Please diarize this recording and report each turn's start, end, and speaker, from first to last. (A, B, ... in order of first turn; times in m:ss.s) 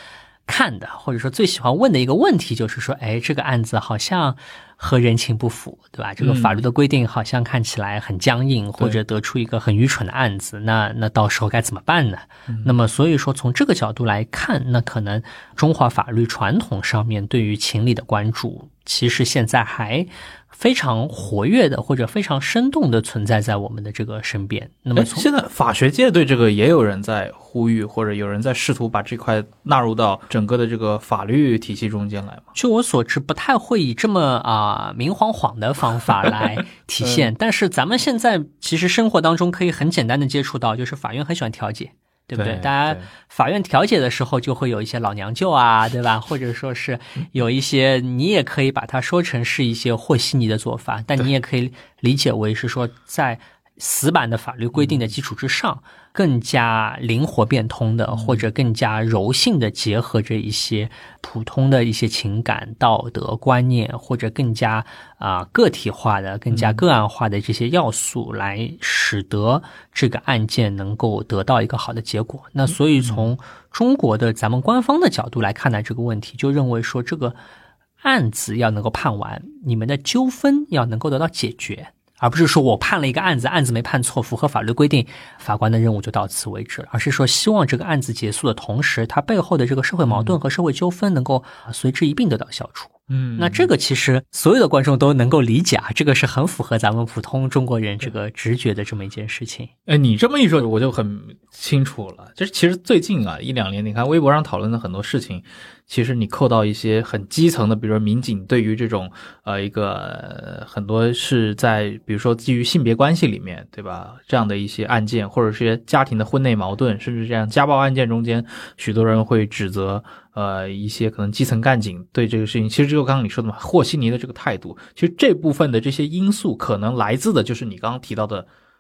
0:00.5-0:25.3 A
0:06.2-0:06.6 B
0:12.5-0:12.7 B
0:25.0-0:32.5 B
0:32.6-1:17.4 A
0:37.0-0:37.3 B
0:42.4-0:43.1 B
0:54.7-0:55.0 B
0:58.1-0:58.4 B
1:06.5-1:06.8 B
1:12.7-1:13.3 B
1:18.0-1:39.7 A
1:30.0-1:30.4 B
1:33.1-1:33.7 B
1:39.9-2:08.5 B